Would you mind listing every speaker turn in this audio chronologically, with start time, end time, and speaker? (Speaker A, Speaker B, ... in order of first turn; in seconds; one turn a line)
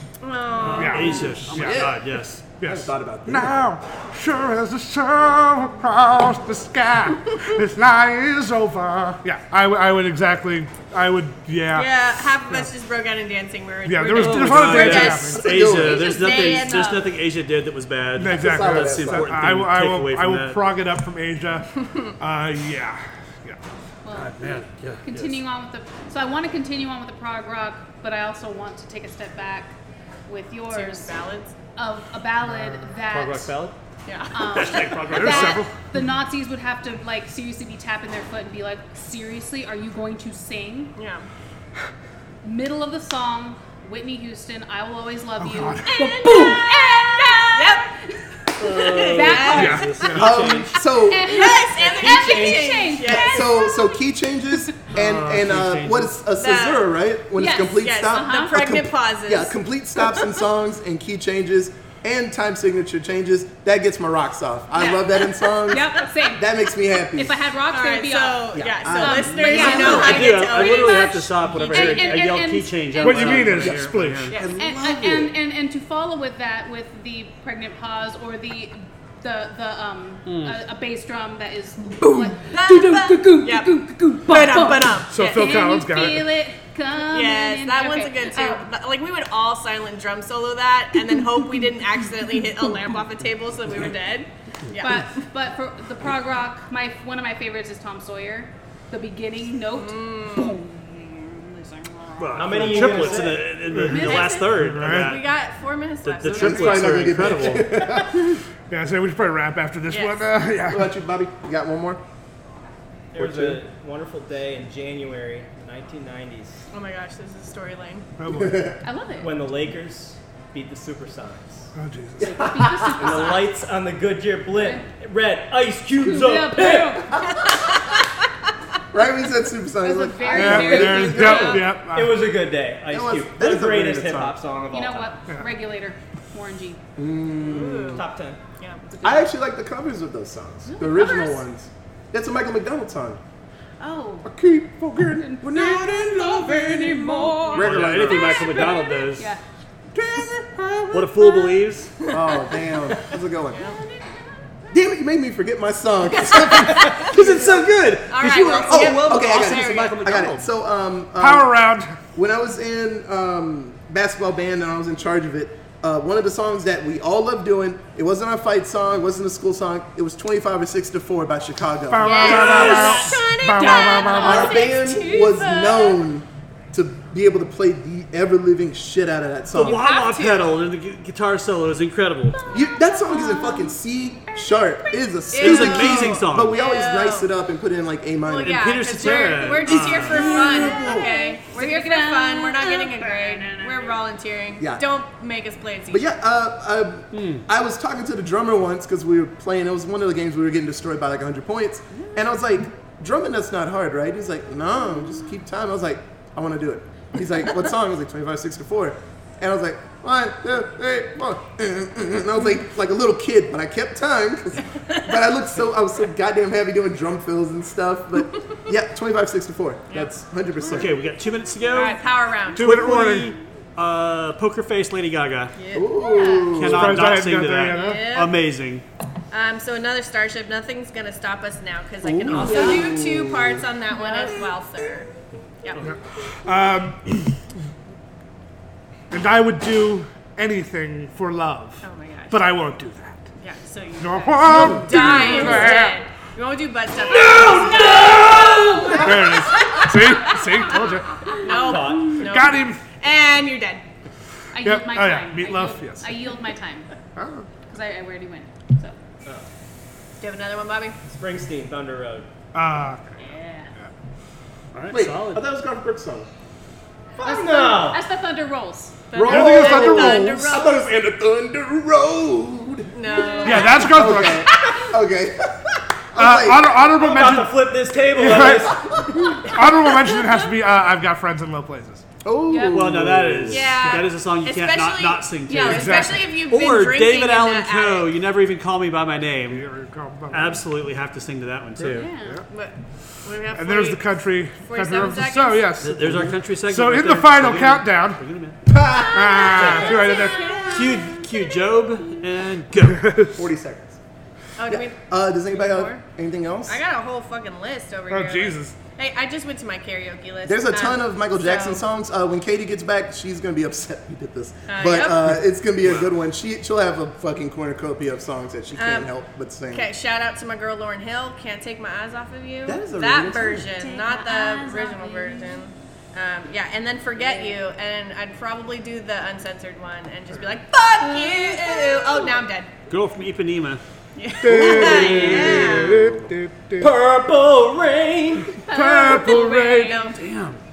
Speaker A: 0.2-1.4
Speaker B: 0.6-2.4
Speaker C: 0.7-1.9
Speaker D: 1.5-2.0
Speaker C: 2.6-12.7
Speaker D: 2.6-3.6
Speaker A: 11.7-17.0
Speaker C: 13.9-15.4
Speaker B: 14.1-20.6
Speaker D: 14.9-16.1
Speaker E: 15.9-17.0
Speaker C: 18.1-23.6
Speaker D: 18.3-19.4
Speaker E: 24.0-29.8
Speaker B: 24.1-25.4
Speaker E: 30.3-31.1
Speaker A: 30.7-31.5
Speaker E: 31.8-33.5
Speaker B: 33.1-33.7
Speaker A: 34.1-35.0
Speaker E: 34.3-40.9
Speaker B: 34.5-35.6
Speaker C: 35.1-35.7
Speaker A: 41.0-41.2
Speaker E: 42.4-50.2
Speaker C: 45.4-46.1
Speaker A: 45.9-47.9
Speaker B: 48.6-50.4
Speaker A: 48.7-50.1
Speaker F: 48.9-50.8
Speaker C: 49.5-50.2
Speaker D: 50.1-51.4
Speaker E: 50.9-54.0
Speaker A: 51.2-53.5
Speaker F: 51.8-52.8
Speaker D: 53.1-67.4
Speaker B: 54.9-56.1
Speaker A: 56.4-56.9
Speaker E: 57.4-58.5
Speaker A: 57.8-59.5
Speaker E: 64.8-73.8
Speaker A: 67.7-72.2
Speaker D: 68.5-70.2
Speaker B: 69.3-75.3
Speaker C: 73.0-74.4
Speaker E: 74.5-88.6
Speaker B: 80.2-80.6
Speaker A: 82.5-85.6
Speaker C: 85.1-86.3
Speaker A: 87.1-95.2
Speaker E: 91.1-91.6
Speaker E: 92.4-92.7
Speaker E: 94.8-104.7
Speaker A: 99.7-100.6
Speaker B: 102.2-105.4
Speaker F: 102.3-103.5
Speaker C: 103.7-105.2
Speaker A: 104.8-107.5
Speaker B: 106.0-107.8
Speaker D: 106.2-108.4
Speaker C: 108.7-110.9
Speaker A: 109.9-110.2
Speaker D: 110.7-112.0
Speaker F: 113.1-116.6
Speaker D: 113.1-113.6
Speaker A: 116.7-118.1
Speaker C: 118.2-118.7
Speaker D: 118.3-118.8
Speaker E: 118.8-119.4
Speaker F: 119.2-121.7
Speaker C: 121.7-122.4
Speaker D: 122.2-123.3
Speaker E: 122.2-123.6
Speaker F: 122.9-127.0
Speaker E: 124.4-124.9
Speaker E: 126.0-127.2
Speaker D: 128.9-131.6
Speaker E: 129.8-131.6
Speaker C: 130.3-132.3
Speaker A: 131.1-131.7
Speaker F: 131.2-135.2
Speaker D: 132.9-134.4
Speaker E: 134.7-136.8
Speaker D: 136.9-138.0
Speaker A: 137.4-138.8
Speaker F: 137.9-138.4
Speaker E: 138.9-139.3
Speaker D: 139.0-143.2
Speaker E: 140.6-141.4
Speaker E: 143.8-144.3
Speaker D: 144.2-145.6
Speaker E: 145.1-149.4
Speaker F: 146.0-147.0
Speaker B: 146.4-146.6
Speaker B: 147.5-149.3
Speaker D: 147.5-148.4
Speaker A: 147.6-148.8
Speaker D: 150.3-150.9
Speaker B: 150.9-151.9
Speaker E: 150.9-151.7
Speaker D: 152.1-153.7
Speaker E: 153.6-154.5
Speaker D: 154.7-157.8
Speaker F: 156.4-160.4
Speaker B: 156.8-160.4
Speaker A: 158.1-160.0
Speaker D: 158.4-161.6
Speaker C: 161.2-162.0
Speaker D: 162.1-172.8
Speaker C: 171.9-174.6
Speaker A: 172.0-176.0
Speaker E: 172.1-174.7
Speaker B: 172.2-173.1
Speaker D: 174.1-179.9
Speaker B: 179.5-182.4
Speaker A: 179.6-180.5
Speaker D: 182.5-188.7
Speaker E: 182.8-183.8
Speaker A: 185.3-187.3
Speaker B: 185.3-186.6
Speaker A: 188.2-196.1
Speaker B: 188.4-190.8
Speaker E: 189.7-194.0
Speaker D: 190.6-191.1
Speaker D: 195.9-221.0
Speaker B: 197.1-197.4
Speaker B: 220.7-222.0
Speaker A: 221.7-222.9
Speaker B: 222.5-225.5
Speaker C: 222.5-223.3
Speaker A: 225.6-226.4
Speaker D: 225.7-227.0
Speaker E: 226.0-226.6
Speaker B: 226.5-228.8
Speaker C: 226.6-228.0
Speaker A: 227.5-228.3
Speaker A: 229.3-235.1
Speaker D: 232.0-233.6
Speaker B: 232.3-232.6
Speaker E: 232.4-232.9
Speaker E: 233.9-234.5
Speaker C: 235.8-237.4
Speaker C: 239.1-243.3
Speaker A: 241.8-242.4
Speaker A: 243.4-250.8
Speaker C: 244.0-246.0
Speaker E: 244.1-245.8
Speaker E: 247.1-249.4
Speaker B: 247.3-248.1
Speaker F: 247.4-247.7
Speaker F: 248.5-248.8
Speaker C: 248.9-251.2
Speaker A: 251.4-253.8
Speaker F: 251.4-252.2
Speaker E: 251.4-252.2
Speaker C: 251.8-252.8
Speaker E: 254.5-256.9
Speaker C: 254.6-256.2
Speaker C: 257.1-257.5
Speaker E: 257.7-259.0
Speaker A: 260.2-261.0
Speaker F: 261.1-262.3
Speaker C: 262.5-263.2
Speaker E: 263.2-263.7
Speaker B: 264.7-265.4
Speaker D: 264.9-266.3
Speaker F: 267.2-268.0
Speaker E: 267.2-269.5
Speaker A: 269.1-270.8
Speaker D: 269.1-276.8
Speaker C: 269.2-270.6
Speaker A: 272.9-274.1
Speaker E: 273.2-273.8
Speaker C: 273.4-274.5
Speaker C: 276.1-277.6
Speaker F: 276.9-279.4
Speaker C: 278.1-278.7
Speaker D: 278.4-279.3
Speaker C: 279.5-282.0
Speaker E: 280.0-280.5
Speaker D: 282.2-283.7
Speaker E: 282.5-283.0
Speaker B: 282.7-289.6
Speaker A: 283.5-288.1
Speaker C: 285.6-286.2
Speaker C: 289.5-290.6
Speaker B: 290.3-292.1
Speaker E: 291.9-292.4
Speaker C: 292.0-292.4
Speaker A: 292.5-295.7
Speaker C: 293.5-298.2
Speaker B: 295.8-298.6
Speaker D: 298.7-299.9
Speaker E: 299.0-302.1
Speaker C: 299.1-300.6
Speaker B: 299.6-299.9
Speaker A: 300.1-300.8
Speaker B: 300.7-303.1
Speaker C: 302.9-303.4
Speaker D: 303.3-304.0
Speaker A: 304.6-306.0
Speaker D: 304.7-306.8
Speaker A: 306.7-311.8
Speaker C: 308.1-308.8
Speaker D: 310.4-319.9
Speaker A: 314.7-315.4
Speaker B: 315.8-316.1
Speaker A: 318.8-319.1
Speaker A: 319.7-332.7
Speaker D: 322.6-323.7
Speaker E: 323.6-325.7
Speaker E: 327.1-327.6
Speaker E: 331.0-332.4
Speaker B: 332.9-333.8
Speaker A: 334.1-336.1
Speaker C: 334.4-336.9
Speaker B: 334.8-335.8
Speaker F: 336.8-338.6
Speaker E: 338.7-340.1
Speaker C: 338.7-340.0
Speaker A: 339.1-340.2
Speaker B: 340.1-340.6